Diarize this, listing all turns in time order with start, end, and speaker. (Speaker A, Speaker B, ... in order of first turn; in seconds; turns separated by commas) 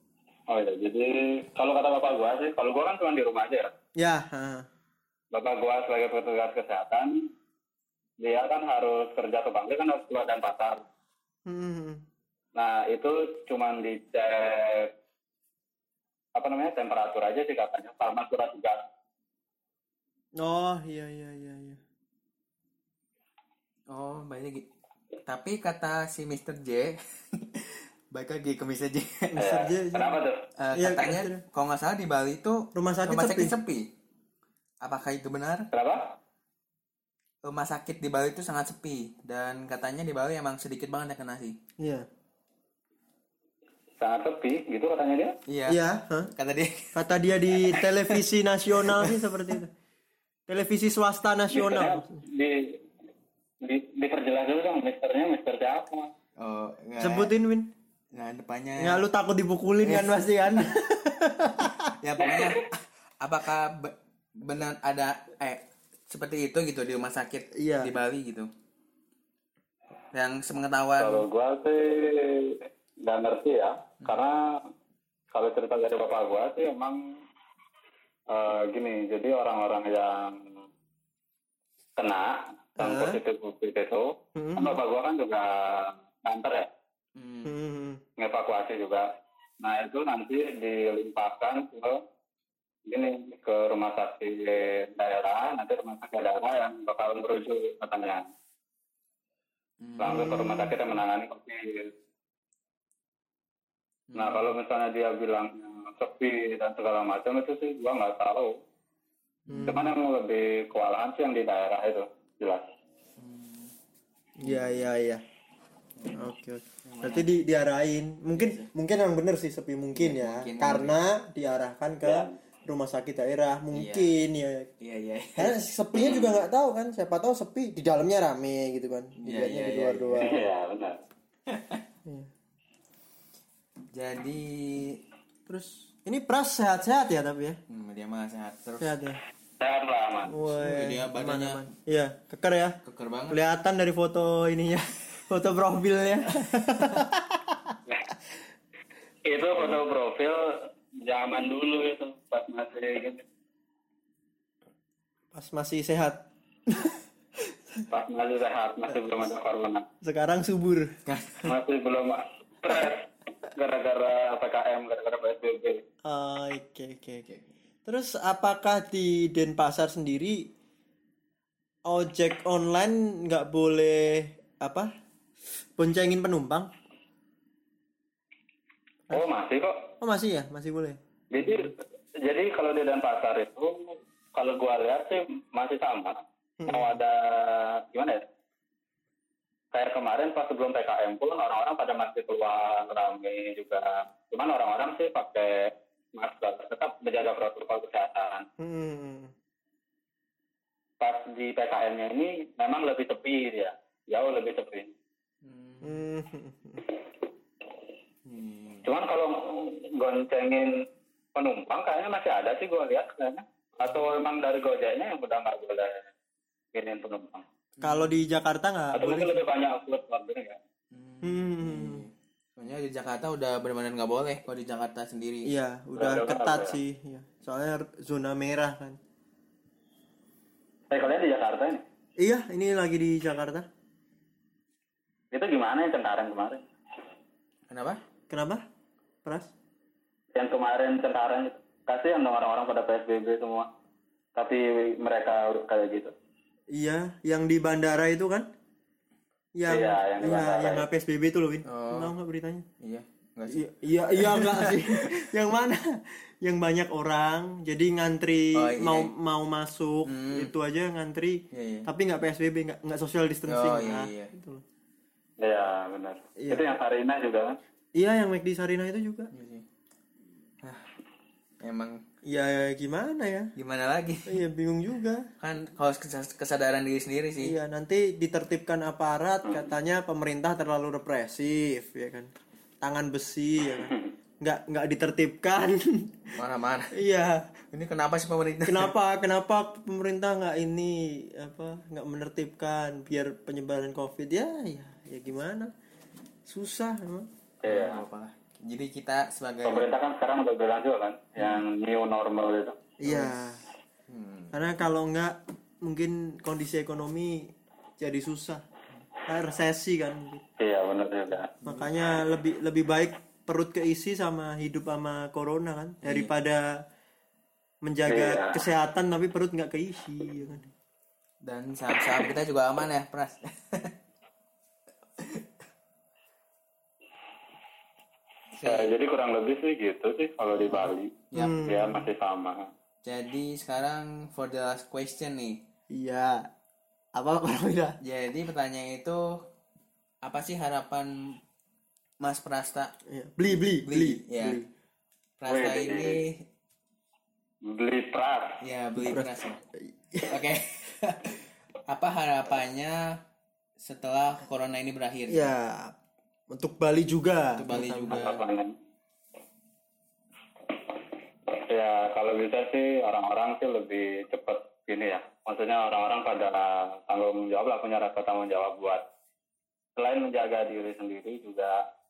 Speaker A: 0.5-3.7, Speaker B: 4.0-4.7, Speaker A: 5.3-7.3, Speaker A: 8.2-10.8, Speaker B: 11.4-12.0, Speaker A: 12.6-14.9, Speaker A: 16.3-18.8, Speaker B: 20.4-21.8, Speaker C: 23.9-24.6, Speaker C: 25.3-26.9, Speaker C: 28.1-29.3, Speaker B: 29.3-30.2, Speaker A: 29.4-30.4, Speaker C: 30.6-33.8, Speaker B: 30.7-31.4, Speaker B: 32.7-33.6, Speaker C: 34.8-35.7, Speaker A: 35.7-36.1, Speaker C: 37.4-41.6, Speaker B: 41.8-42.1, Speaker A: 44.0-45.4, Speaker C: 45.5-45.8, Speaker B: 45.7-46.3, Speaker C: 46.4-46.9, Speaker B: 46.9-49.7, Speaker C: 47.5-48.2, Speaker B: 50.5-52.2, Speaker A: 51.5-52.8, Speaker A: 53.6-56.1, Speaker C: 56.4-57.3, Speaker B: 57.0-57.7, Speaker C: 58.1-59.0, Speaker B: 58.8-61.9, Speaker C: 62.0-62.6, Speaker A: 62.2-62.6, Speaker C: 63.2-68.5, Speaker B: 67.5-67.9, Speaker C: 70.1-71.2, Speaker A: 71.0-74.4, Speaker A: 75.3-77.0, Speaker A: 78.3-80.4, Speaker A: 82.0-86.7, Speaker B: 82.8-83.2, Speaker B: 84.3-84.8, Speaker C: 87.2-87.5, Speaker B: 87.4-88.0, Speaker A: 88.2-89.1, Speaker A: 89.6-92.0, Speaker A: 92.9-98.2, Speaker C: 99.8-100.1, Speaker A: 100.0-101.9, Speaker B: 100.0-100.8, Speaker C: 104.1-104.5, Speaker A: 104.1-108.5, Speaker C: 109.5-109.8, Speaker B: 109.5-109.9, Speaker A: 109.6-112.6, Speaker C: 113.2-113.7, Speaker B: 114.4-115.2, Speaker B: 116.1-124.7, Speaker C: 116.9-117.2, Speaker C: 118.4-118.7, Speaker C: 120.0-120.9, Speaker A: 122.0-122.3, Speaker C: 123.8-124.1, Speaker C: 124.8-125.5, Speaker B: 125.4-130.5, Speaker A: 125.9-126.3, Speaker C: 129.2-130.2, Speaker A: 130.2-131.0, Speaker C: 133.9-134.8, Speaker B: 135.5-137.6, Speaker C: 137.7-138.8, Speaker B: 138.8-139.2, Speaker A: 139.6-140.4, Speaker B: 140.2-142.8, Speaker C: 140.5-141.6, Speaker C: 142.9-143.3, Speaker B: 143.3-147.8, Speaker A: 149.2-153.2, Speaker B: 155.3-157.8, Speaker A: 157.9-159.8, Speaker B: 160.0-161.0, Speaker C: 161.1-161.4, Speaker A: 161.5-165.8, Speaker B: 166.0-167.2, Speaker B: 167.8-170.4, Speaker B: 171.8-174.9, Speaker B: 175.8-176.7, Speaker A: 179.1-179.9, Speaker B: 180.0-181.0, Speaker A: 181.3-188.2, Speaker B: 186.6-187.0, Speaker A: 189.7-198.4, Speaker B: 198.6-199.3, Speaker A: 201.0-204.9, Speaker C: 205.5-205.8, Speaker B: 205.8-206.8, Speaker C: 208.3-208.8, Speaker A: 208.8-210.7, Speaker A: 211.3-216.0, Speaker A: 216.7-217.4, Speaker C: 217.8-218.1, Speaker B: 217.8-219.4, Speaker A: 218.9-220.6, Speaker C: 220.9-222.0, Speaker B: 221.2-222.1, Speaker C: 222.6-225.4, Speaker B: 225.4-229.0, Speaker A: 225.9-226.8, Speaker A: 230.9-231.8, Speaker B: 232.2-233.7, Speaker A: 235.3-236.6, Speaker C: 237.7-237.9, Speaker B: 238.3-238.6, Speaker B: 239.2-239.5, Speaker A: 240.3-243.7, Speaker A: 244.3-246.1, Speaker B: 246.7-248.5, Speaker B: 249.5-252.7, Speaker A: 249.7-250.8, Speaker C: 251.7-252.1, Speaker C: 252.8-253.6, Speaker B: 253.5-264.6, Speaker C: 254.2-254.8, Speaker C: 258.6-259.1, Speaker C: 260.1-260.5, Speaker C: 261.5-261.9, Speaker C: 263.5-264.3, Speaker A: 265.4-267.6, Speaker B: 266.4-266.7, Speaker B: 267.9-269.3, Speaker C: 269.4-269.6, Speaker C: 271.6-271.9, Speaker B: 272.2-273.5, Speaker C: 273.6-274.3, Speaker B: 274.2-275.3, Speaker C: 275.4-277.5, Speaker B: 277.4-286.4, Speaker C: 286.4-286.9, Speaker B: 286.9-287.5, Speaker C: 287.7-288.9, Speaker B: 288.6-295.7, Speaker B: 296.4-297.3, Speaker A: 297.6-298.0, Speaker C: 297.7-299.8, Speaker A: 299.6-302.8, Speaker B: 303.0-303.6, Speaker C: 304.1-304.5, Speaker B: 304.5-308.6, Speaker B: 309.3-310.4, Speaker A: 310.6-311.5, Speaker B: 311.6-316.7, Speaker B: 317.8-320.7, Speaker A: 318.1-318.6, Speaker C: 321.4-323.3, Speaker C: 328.6-328.9, Speaker A: 328.6-332.7, Speaker B: 331.3-332.1, Speaker C: 333.0-335.6, Speaker B: 335.9-336.5, Speaker B: 337.1-338.0, Speaker C: 338.0-339.2, Speaker C: 340.2-341.1, Speaker C: 342.2-342.9, Speaker B: 343.1-344.7, Speaker C: 343.8-344.5, Speaker C: 345.4-346.2, Speaker A: 345.5-346.2, Speaker A: 347.6-348.6, Speaker C: 348.6-349.6, Speaker B: 348.9-350.4, Speaker C: 350.3-351.1, Speaker C: 351.9-352.9, Speaker C: 353.8-355.4, Speaker B: 355.3-355.9, Speaker B: 356.5-358.2, Speaker C: 357.6-358.4, Speaker A: 358.1-358.7, Speaker A: 361.5-369.0, Speaker A: 370.0-371.8